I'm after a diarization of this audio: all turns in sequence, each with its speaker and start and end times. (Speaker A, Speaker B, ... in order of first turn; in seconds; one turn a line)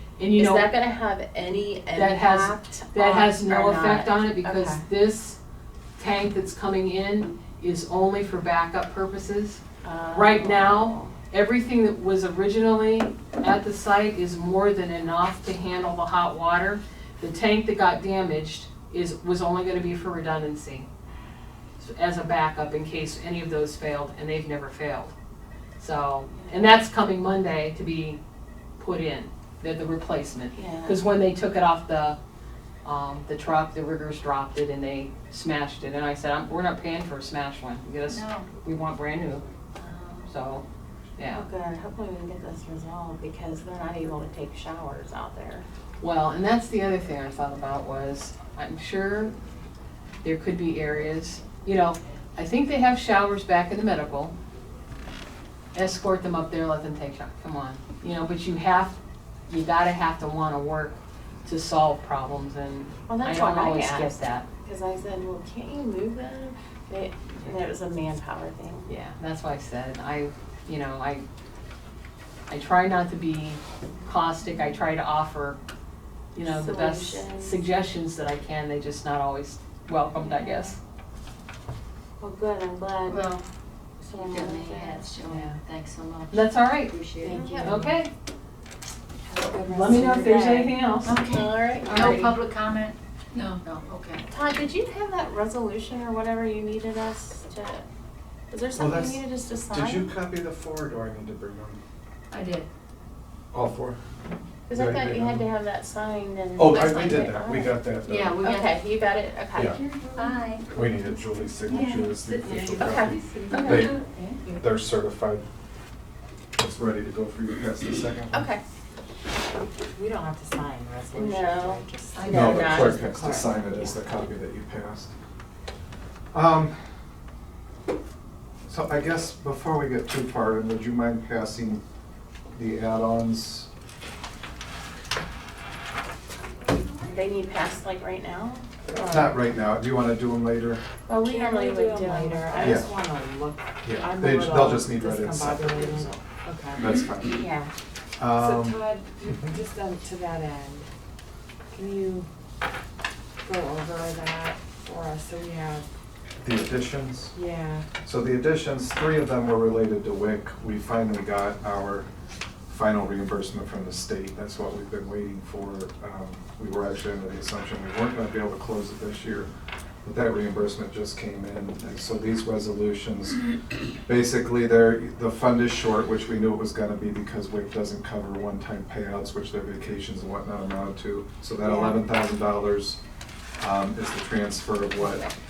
Speaker A: 0.2-0.7
Speaker B: 0.3-4.8
Speaker A: 1.9-5.4
Speaker A: 6.0-9.6
Speaker B: 9.8-11.1
Speaker A: 10.1-20.9
Speaker A: 21.8-25.1
Speaker A: 25.8-28.2
Speaker B: 26.3-26.7
Speaker A: 28.8-32.2
Speaker B: 30.5-31.1
Speaker A: 32.8-39.4
Speaker C: 38.1-38.5
Speaker B: 39.8-40.3
Speaker A: 40.3-40.6
Speaker A: 41.2-41.5
Speaker B: 41.3-45.6
Speaker A: 46.0-49.3
Speaker A: 50.2-54.3
Speaker A: 55.7-59.0
Speaker A: 59.5-64.4
Speaker B: 63.1-68.9
Speaker A: 68.9-71.2
Speaker A: 72.5-75.6
Speaker A: 76.3-80.8
Speaker B: 76.4-77.6
Speaker B: 80.3-80.7
Speaker B: 82.2-83.2
Speaker C: 83.1-83.4
Speaker B: 84.0-85.1
Speaker C: 84.1-87.5
Speaker A: 85.2-85.5
Speaker A: 86.3-88.1
Speaker B: 87.2-87.9
Speaker D: 87.5-88.0
Speaker D: 89.3-90.4
Speaker A: 89.5-91.1
Speaker B: 89.6-92.2
Speaker C: 91.0-94.2
Speaker A: 91.8-92.3
Speaker B: 94.3-97.8
Speaker B: 98.5-100.1
Speaker E: 98.8-101.8
Speaker C: 102.3-102.7
Speaker E: 103.5-104.0
Speaker B: 104.7-107.8
Speaker E: 104.7-105.5
Speaker E: 106.6-108.4
Speaker C: 108.0-108.8
Speaker B: 108.4-110.3
Speaker C: 110.1-110.7
Speaker E: 110.7-114.0
Speaker C: 111.7-113.7
Speaker B: 112.8-113.9
Speaker D: 113.5-114.3
Speaker E: 114.6-115.4
Speaker E: 116.5-118.5
Speaker B: 118.3-118.6
Speaker D: 119.9-124.0
Speaker B: 121.1-123.0
Speaker C: 122.2-122.6
Speaker E: 122.3-125.1
Speaker E: 126.3-126.8
Speaker E: 128.7-131.8
Speaker E: 132.5-133.7
Speaker B: 137.0-138.7
Speaker D: 138.9-139.3
Speaker E: 139.0-140.8
Speaker B: 141.1-142.9
Speaker D: 141.2-146.8
Speaker E: 142.6-142.8
Speaker E: 143.8-146.1
Speaker E: 146.7-147.4
Speaker B: 147.3-147.7
Speaker E: 148.2-149.6
Speaker D: 148.3-150.9
Speaker D: 151.7-152.3
Speaker D: 153.4-155.8
Speaker E: 156.4-157.3
Speaker D: 157.3-157.8
Speaker E: 158.0-162.1
Speaker E: 162.7-169.5
Speaker E: 170.0-173.4
Speaker E: 174.0-183.0
Speaker D: 181.6-182.0
Speaker E: 183.6-185.3